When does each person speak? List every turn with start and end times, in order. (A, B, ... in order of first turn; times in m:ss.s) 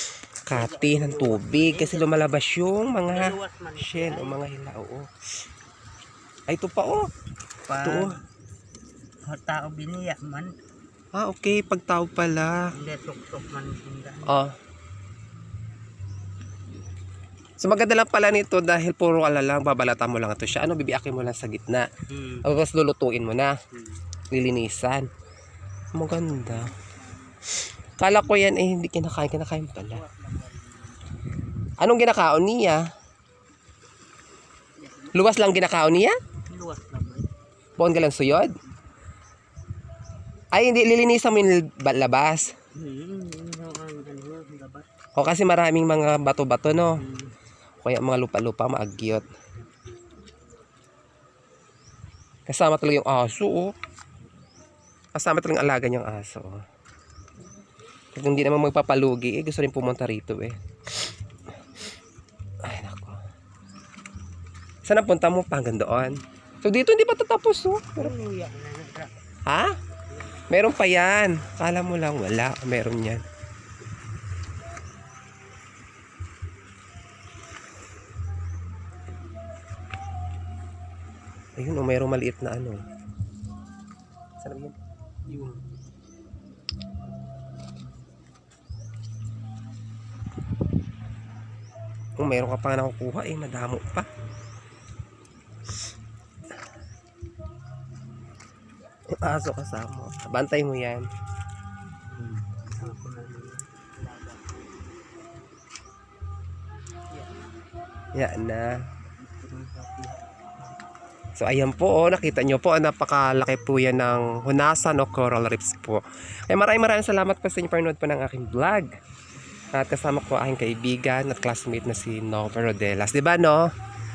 0:00.4-0:05.1 A
0:00.5-0:02.3 B
0:03.1-0:04.4 B
0:06.5-0:07.1 A
0:07.7-0:08.1 B
0:07.8-0:08.1 A
0:09.3-0:10.5 B
0:11.1-0:12.7 A
0:12.6-0:14.4 B
0:14.2-0:14.5 A
0:17.6-0:21.9 A
0:22.1-0:22.4 B
0:22.4-0:23.6 A
0:23.7-0:24.0 B
0:24.3-0:25.1 A
0:25.9-0:26.7 A
0:26.1-0:27.4 B
0:28.0-0:30.0 A
0:29.9-0:31.7 B
0:31.8-0:32.8 A
0:34.8-0:35.5 B
0:35.1-0:36.2 A
0:36.5-0:37.3 B
0:37.8-0:38.5 A
0:40.5-0:42.5 A
0:42.7-0:44.9 B
0:45.2-0:47.0 A
0:47.0-0:47.3 B
0:47.8-0:49.2 A
0:52.5-0:53.7 A
0:55.1-0:56.6 A
0:58.1-1:01.1 A
1:02.6-1:03.2 A
1:04.8-1:08.1 A
1:08.0-1:09.1 B
1:09.4-1:09.8 A
1:10.5-1:13.2 A
1:21.6-1:22.8 A
1:24.4-1:24.8 A
1:25.3-1:25.6 B
1:32.2-1:34.1 A
1:39.1-1:41.1 A
1:42.1-1:44.6 B
1:48.1-1:48.8 A
1:49.2-1:50.7 B
1:51.4-1:58.9 A
1:59.7-2:03.6 A